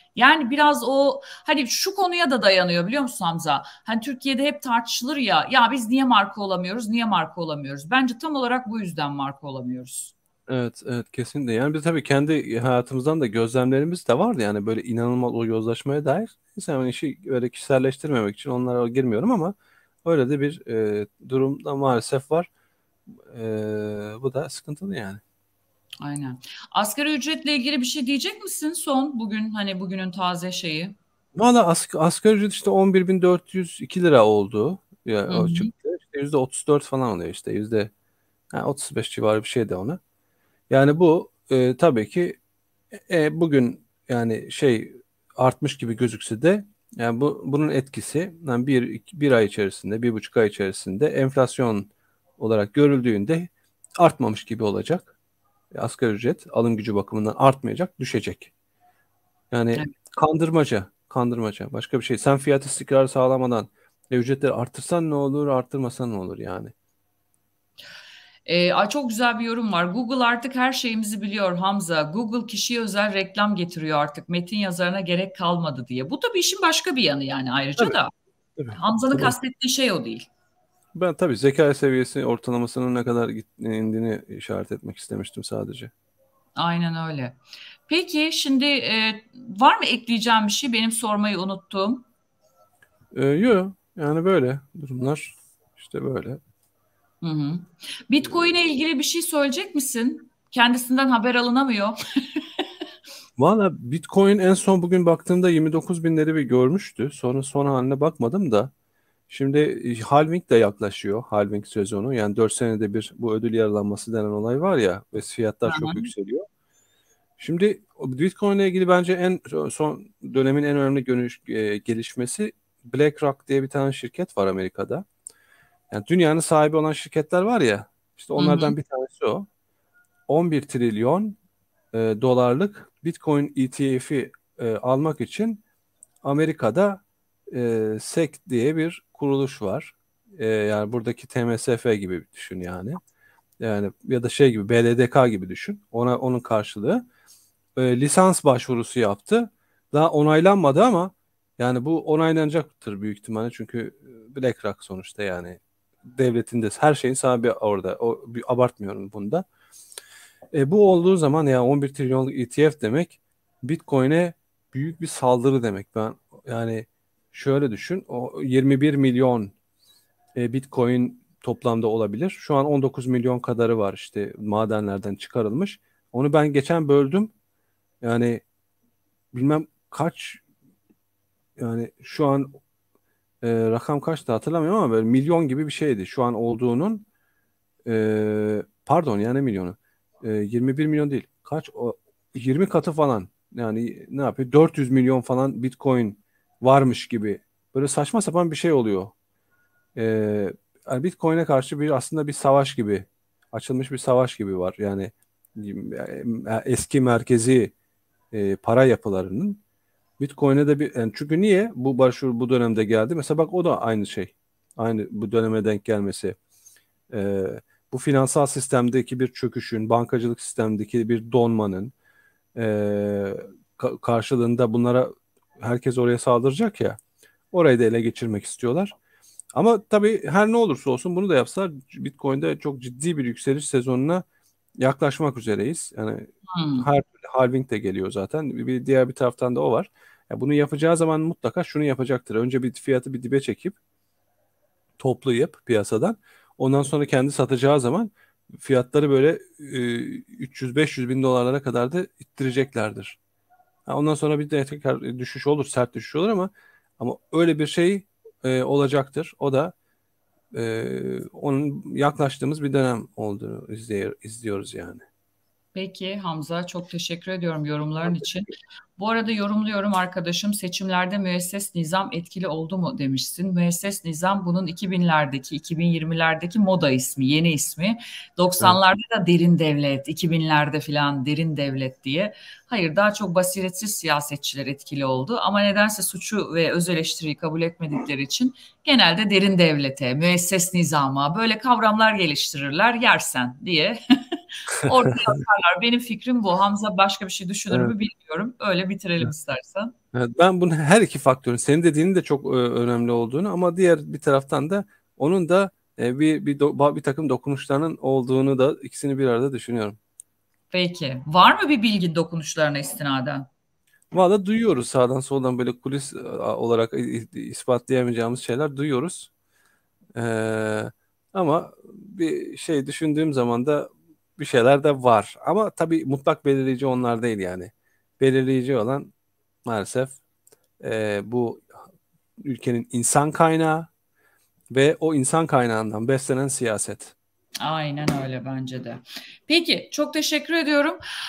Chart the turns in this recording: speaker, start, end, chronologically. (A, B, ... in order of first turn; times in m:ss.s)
0:00.1-0:10.1 A
0:10.5-0:22.5 B
0:23.3-0:25.2 B
0:26.0-0:31.0 A
0:31.4-0:37.9 B
0:35.3-0:35.7 A
0:38.5-0:40.0 B
0:40.7-0:42.4 B
0:43.1-0:55.1 B
0:55.7-0:58.5 B
0:59.5-1:06.7 B
1:08.4-1:18.1 A
1:18.6-1:19.4 B
1:18.7-1:20.3 A
1:20.9-1:25.9 B
1:26.6-1:32.0 A
1:33.1-1:36.4 B
1:37.2-1:42.6 A
1:43.4-1:48.7 B
1:49.3-1:56.4 B
1:55.6-1:56.1 A
1:57.4-2:05.0 B
2:05.9-2:09.4 B
2:08.4-2:08.8 A
2:10.3-2:11.4 B
2:11.9-2:15.6 B
2:16.2-2:23.0 B
2:23.6-2:27.0 B
2:27.8-2:39.4 B
2:40.5-2:49.5 B
2:50.4-2:57.3 B
2:58.0-2:58.4 B
2:59.3-3:00.4 B
3:01.6-3:02.6 B
3:03.4-3:07.0 B
3:07.8-3:19.1 B
3:20.0-3:27.7 B
3:28.3-3:29.6 B
3:30.2-3:36.4 B
3:37.1-3:41.9 B
3:42.6-3:47.0 B
3:47.5-3:48.9 B
3:49.5-3:54.2 B
3:54.8-4:03.8 B
3:56.5-3:56.9 A
4:05.0-4:13.2 B
4:13.9-4:19.7 B
4:20.5-4:25.0 B
4:25.7-4:59.9 A
5:00.1-5:10.0 B
5:10.7-5:13.5 A
5:14.1-5:19.3 B
5:20.2-5:29.1 B
5:29.6-5:30.2 B
5:30.8-5:31.7 B
5:32.4-5:33.9 B
5:34.7-5:37.1 B
5:37.6-5:41.0 A